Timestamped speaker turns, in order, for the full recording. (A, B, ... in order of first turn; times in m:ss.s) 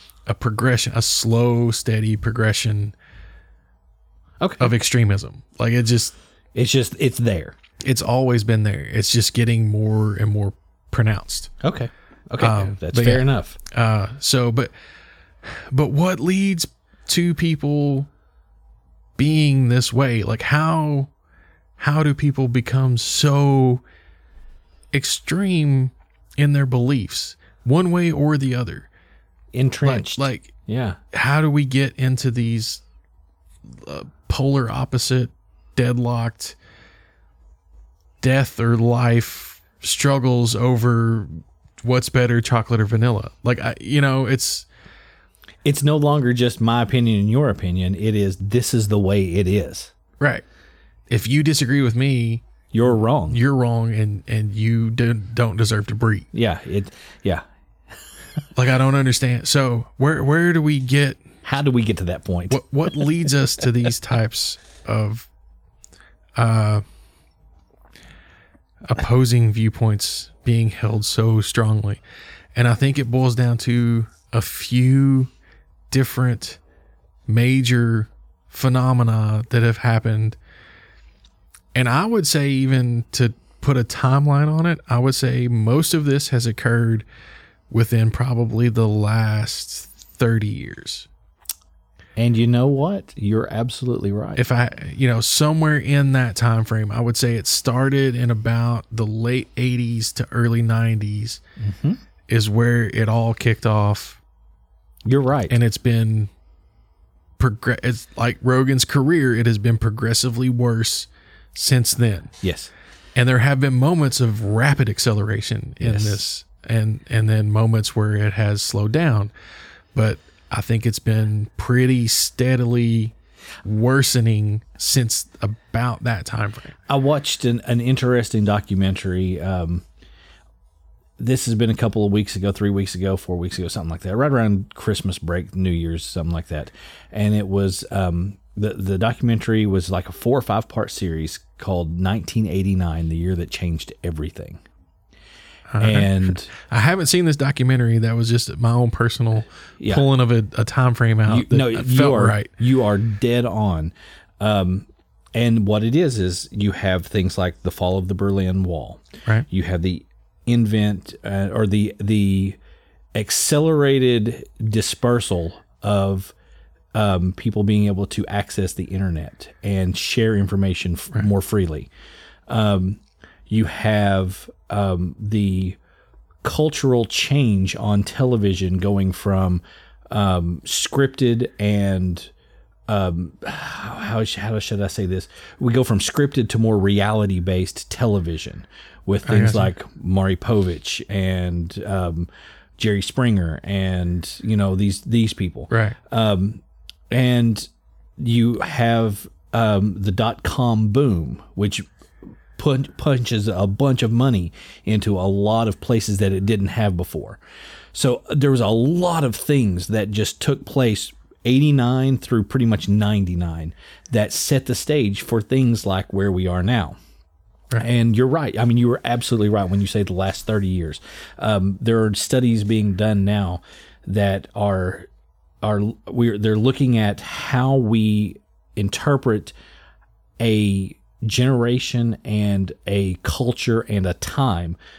0:00.3-0:02.9 A
0:04.4-0:04.7 B
0:04.6-0:06.2 A
0:06.5-0:07.6 B
0:07.8-0:11.5 A
0:11.6-0:13.6 B
0:12.4-0:14.7 A
0:15.4-0:18.1 A
0:19.2-0:21.1 A
0:21.8-0:23.8 A
0:24.9-0:28.9 A
0:29.5-0:31.0 B
0:29.8-0:30.5 A
0:31.1-0:32.8 A
0:33.7-0:36.6 A
0:38.2-0:44.7 A
0:45.6-0:49.9 B
0:50.2-0:50.4 A
0:51.1-0:52.4 A
0:52.7-0:53.4 B
0:53.3-0:56.3 A
0:56.3-0:57.4 B
0:58.5-1:01.2 A
1:01.4-1:03.1 B
1:02.5-1:05.3 A
1:06.4-1:06.8 A
1:08.8-1:12.0 A
1:12.5-1:15.3 A
1:15.9-1:16.6 A
1:17.3-1:20.4 A
1:21.7-1:27.0 A
1:27.7-1:31.1 A
1:32.2-1:34.4 B
1:34.4-1:41.4 A
1:41.6-1:42.0 B
1:42.3-1:44.2 A
1:45.0-1:45.6 B
1:45.5-1:46.3 A
1:47.4-1:52.3 A
1:52.4-1:52.7 B
1:53.1-1:59.3 A
1:55.8-1:56.2 B
1:59.9-2:06.8 A
2:06.9-2:09.8 B
2:11.2-2:24.6 B
2:25.7-2:32.5 A
2:25.8-2:26.5 B
2:29.8-2:30.0 B
2:31.3-2:42.6 B
2:43.1-2:46.3 B
2:46.9-2:51.9 B
2:52.5-2:55.8 B
2:56.4-3:02.3 B
3:02.9-3:21.8 B
3:09.2-3:09.7 A
3:15.7-3:16.0 A
3:22.6-3:27.4 B
3:27.9-3:37.0 B
3:37.8-3:45.1 B
3:45.6-3:49.5 B
3:50.4-3:54.8 B